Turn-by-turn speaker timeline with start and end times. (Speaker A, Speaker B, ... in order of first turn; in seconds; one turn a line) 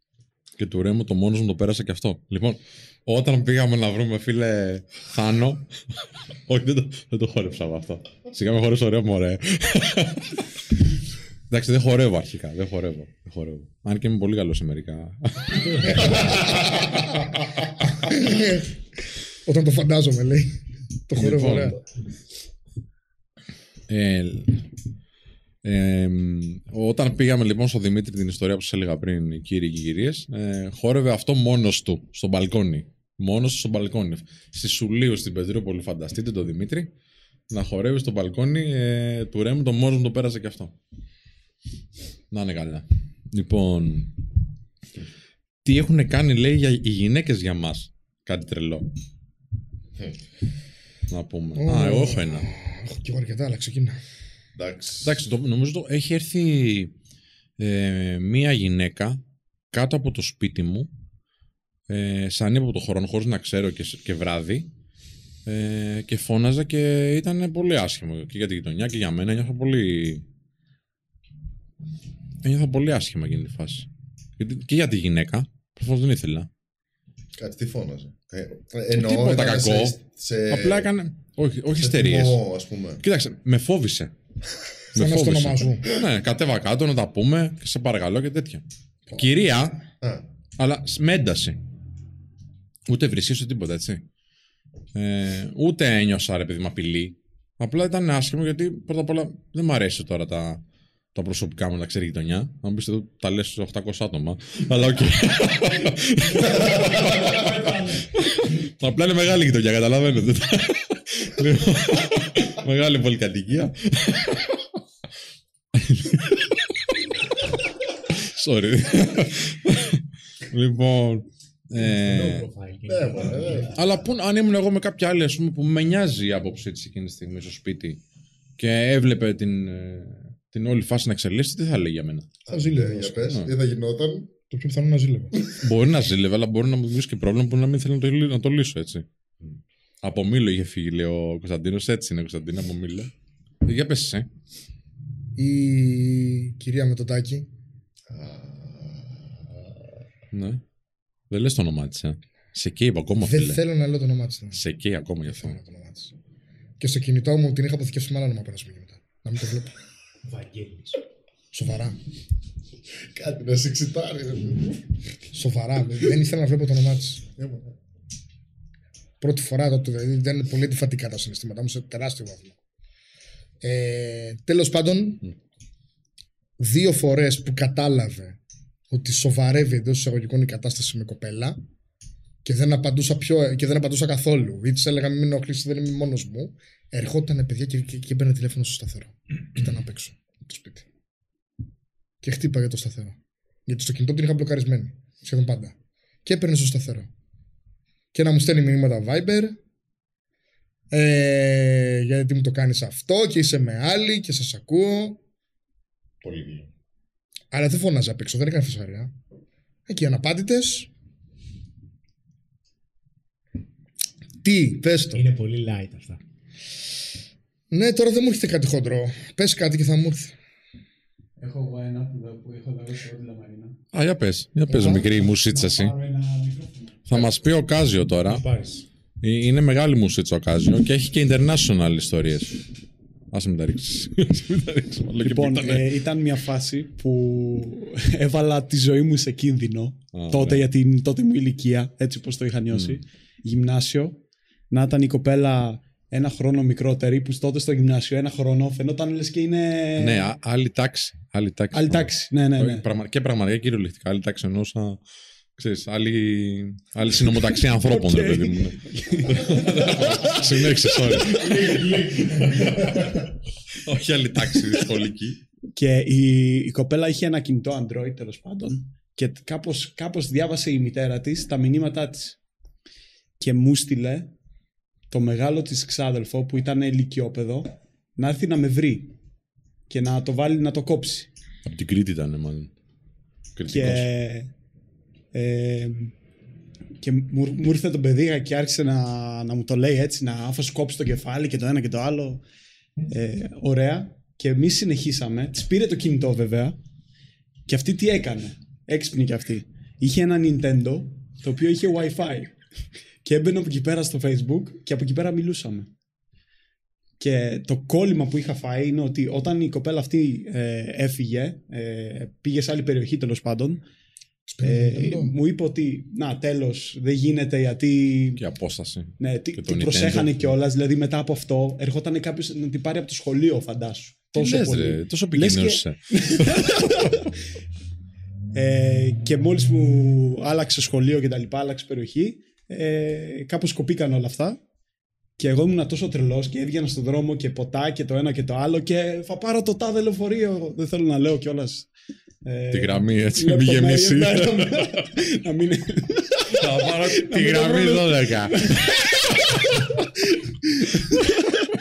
Speaker A: 0.6-10.5
Speaker A: 11.5-17.1
Speaker B: 17.9-18.8
Speaker B: 19.4-21.8
Speaker A: 21.1-21.8
Speaker A: 23.9-24.6
Speaker A: 25.6-36.9
Speaker A: 37.5-40.7
Speaker A: 42.3-44.1
Speaker A: 45.6-48.9
Speaker A: 51.1-52.5
Speaker B: 51.5-54.0
Speaker C: 54.5-55.1
Speaker A: 55.0-56.9
Speaker A: 57.6-59.2
Speaker A: 59.7-60.9
Speaker A: 61.9-64.7
Speaker A: 65.5-70.2
Speaker A: 72.4-73.9
Speaker A: 74.4-76.5
Speaker C: 77.3-80.9
Speaker A: 78.9-80.0
Speaker A: 80.5-82.4
Speaker C: 81.7-83.0
Speaker A: 83.0-84.1
Speaker B: 84.9-85.8
Speaker A: 84.9-89.8
Speaker A: 90.6-91.6
Speaker A: 92.9-94.0
Speaker A: 94.9-100.6
Speaker A: 101.1-114.6
Speaker D: 107.3-108.0
Speaker A: 115.7-116.9
Speaker A: 118.1-122.5
Speaker E: 121.7-123.7
Speaker C: 122.9-124.0
Speaker A: 123.7-128.0
Speaker A: 128.6-132.3
Speaker C: 132.4-134.3
Speaker B: 132.5-133.4
Speaker B: 134.5-135.3
Speaker A: 135.6-139.1
Speaker A: 140.0-143.1
Speaker A: 143.6-144.3
Speaker B: 145.3-147.5
Speaker C: 148.1-149.9
Speaker A: 150.3-150.6
Speaker A: 151.3-153.6
Speaker B: 153.2-154.6
Speaker A: 154.5-155.6
Speaker B: 155.3-156.1
Speaker B: 156.8-159.7
Speaker E: 160.2-161.0
Speaker B: 161.5-162.0
Speaker C: 163.0-164.9
Speaker B: 165.3-167.2
Speaker C: 167.4-167.7
Speaker B: 169.2-172.6
Speaker B: 173.6-175.2
Speaker B: 176.6-178.4
Speaker B: 178.9-181.6
Speaker B: 182.4-190.8
Speaker B: 192.2-197.1
Speaker B: 198.1-199.6
Speaker B: 200.9-205.2
Speaker C: 206.2-206.7
Speaker B: 207.5-209.1
Speaker B: 209.9-210.9
Speaker B: 214.4-215.3
Speaker E: 215.1-216.2
Speaker B: 217.7-220.3
Speaker D: 221.4-223.8
Speaker A: 223.9-225.9
Speaker B: 224.7-225.1
Speaker D: 225.2-227.3
Speaker A: 227.1-228.4
Speaker E: 228.3-228.8
Speaker A: 229.2-232.6
Speaker A: 233.3-235.9
Speaker D: 235.2-250.3
Speaker A: 240.1-240.7
Speaker A: 242.7-243.0
Speaker A: 250.0-255.0
Speaker D: 251.7-252.8
Speaker A: 255.6-263.1
Speaker D: 257.6-263.2
Speaker A: 263.7-265.4
Speaker D: 265.7-272.4
Speaker D: 273.4-274.3
Speaker D: 275.1-279.1
Speaker D: 279.9-281.3
Speaker A: 281.6-282.7
Speaker A: 283.6-284.1
Speaker D: 283.7-284.5
Speaker D: 285.3-286.1
Speaker D: 287.0-292.4
Speaker D: 293.1-296.8
Speaker D: 297.6-302.5
Speaker D: 303.2-305.9
Speaker D: 307.2-313.8
Speaker B: 314.5-315.3
Speaker D: 314.6-318.4
Speaker A: 318.4-320.4
Speaker D: 319.2-327.2
Speaker A: 324.3-327.1
Speaker D: 328.5-334.6
Speaker D: 335.4-341.9
Speaker D: 342.4-351.4
Speaker A: 342.7-345.1
Speaker A: 346.5-348.7